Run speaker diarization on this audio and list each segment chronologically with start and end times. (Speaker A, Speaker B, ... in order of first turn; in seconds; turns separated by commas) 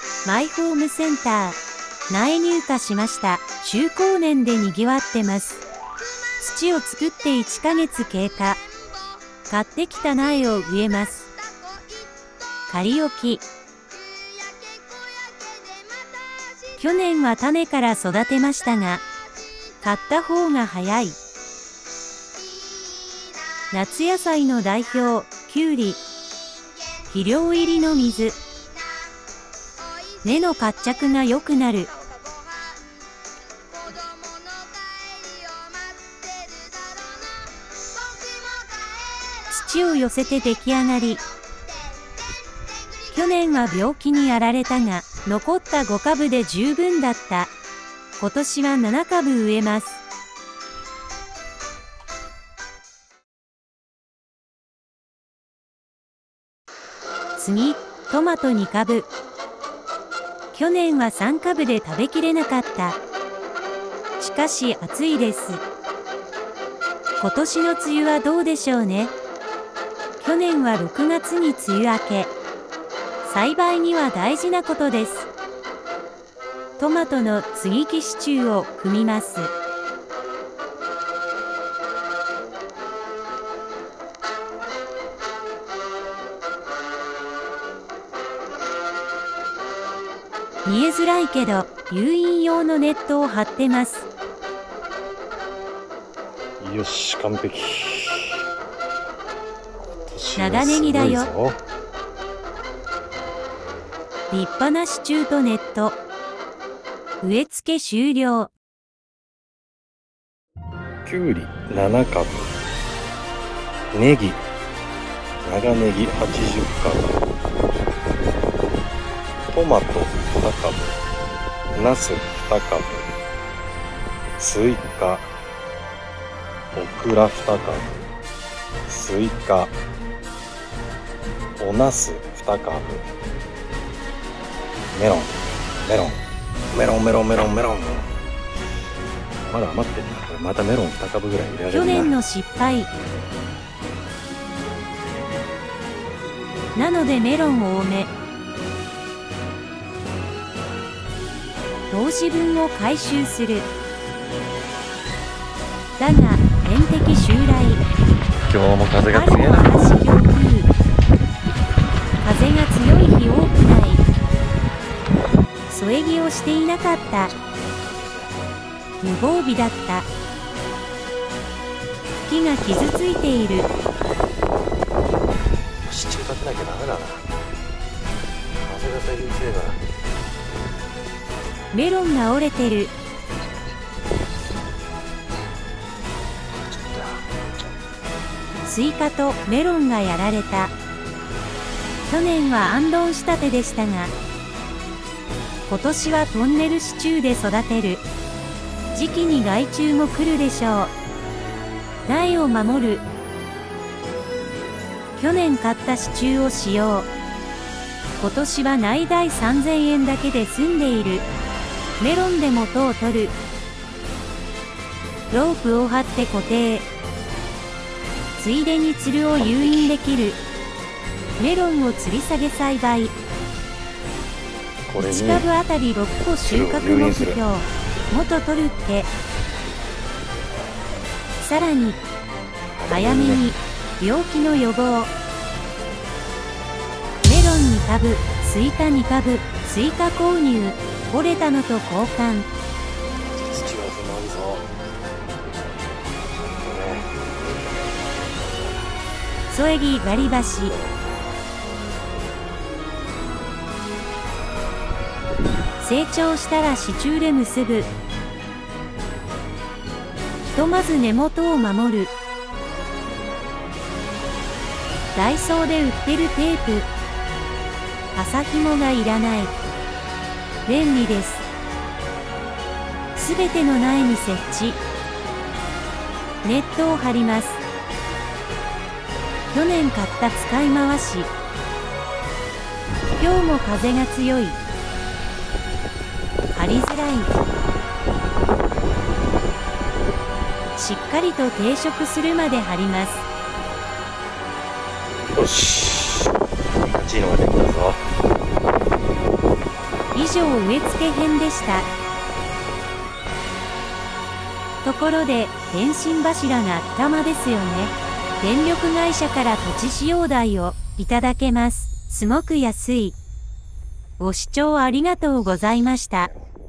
Speaker A: 0.2-5.6, Speaker A: 6.4-8.6, Speaker A: 9.5-11.3, Speaker A: 12.7-13.4, Speaker A: 16.8-19.0, Speaker A: 19.8-21.2, Speaker A: 23.7-26.0, Speaker A: 27.1-28.4, Speaker A: 30.2-31.9, Speaker A: 39.5-41.2, Speaker A: 43.1-47.5, Speaker A: 48.2-50.0, Speaker A: 57.4-59.1, Speaker A: 60.5-63.0, Speaker A: 64.2-65.6, Speaker A: 67.2-69.1, Speaker A: 70.2-72.3, Speaker A: 73.2-75.3, Speaker A: 76.8-79.5, Speaker A: 90.6-94.1, Speaker B: 96.6-98.4, Speaker B: 100.0-101.6, Speaker A: 100.3-101.3, Speaker A: 104.3-106.0, Speaker A: 107.2-108.5, Speaker B: 111.0-112.5, Speaker B: 113.9-114.4, Speaker B: 115.4-117.2, Speaker B: 119.5-121.0, Speaker B: 121.7-123.1, Speaker B: 124.4-125.3, Speaker B: 126.7-128.0, Speaker B: 128.8-129.7, Speaker B: 131.6-133.1, Speaker B: 134.9-138.2, Speaker B: 139.5-142.1, Speaker A: 141.7-142.9, Speaker A: 146.7-148.1, Speaker A: 151.9-153.7, Speaker A: 156.0-157.8, Speaker B: 158.4-159.7, Speaker A: 159.1-160.7, Speaker A: 162.2-164.0, Speaker A: 165.7-167.3, Speaker B: 167.3-168.4, Speaker A: 169.0-170.1, Speaker A: 172.2-173.7, Speaker B: 175.8-177.2, Speaker B: 178.6-179.8, Speaker A: 181.7-182.9, Speaker B: 186.5-187.3, Speaker A: 188.6-190.7, Speaker A: 192.1-194.1, Speaker A: 195.7-198.0, Speaker A: 198.9-200.9, Speaker A: 202.1-203.0, Speaker A: 205.2-207.1, Speaker A: 208.2-211.3, Speaker A: 212.0-213.4, Speaker A: 215.3-216.9, Speaker A: 218.4-220.4, Speaker B: 219.4-219.9, Speaker A: 221.4-223.1, Speaker B: 224.9-225.5, Speaker A: 225.0-229.1, Speaker B: 226.4-227.4, Speaker A: 231.4-232.0, Speaker B: 232.7-233.5, Speaker A: 232.9-235.1, Speaker A: 237.2-242.5, Speaker B: 243.2-244.8, Speaker B: 245.3-245.7, Speaker B: 246.4-248.8, Speaker A: 249.5-250.7, Speaker A: 255.8-257.9, Speaker A: 260.5-262.1, Speaker A: 265.1-266.9, Speaker A: 268.1-269.5, Speaker A: 270.6-271.4, Speaker A: 273.1-274.8, Speaker A: 276.4-277.6, Speaker A: 279.5-281.3, Speaker A: 283.2-284.6, Speaker A: 286.5-287.3, Speaker A: 290.8-293.2, Speaker B: 295.3-298.0, Speaker A: 300.1-301.9, Speaker A: 304.8-313.2, Speaker A: 314.2-316.3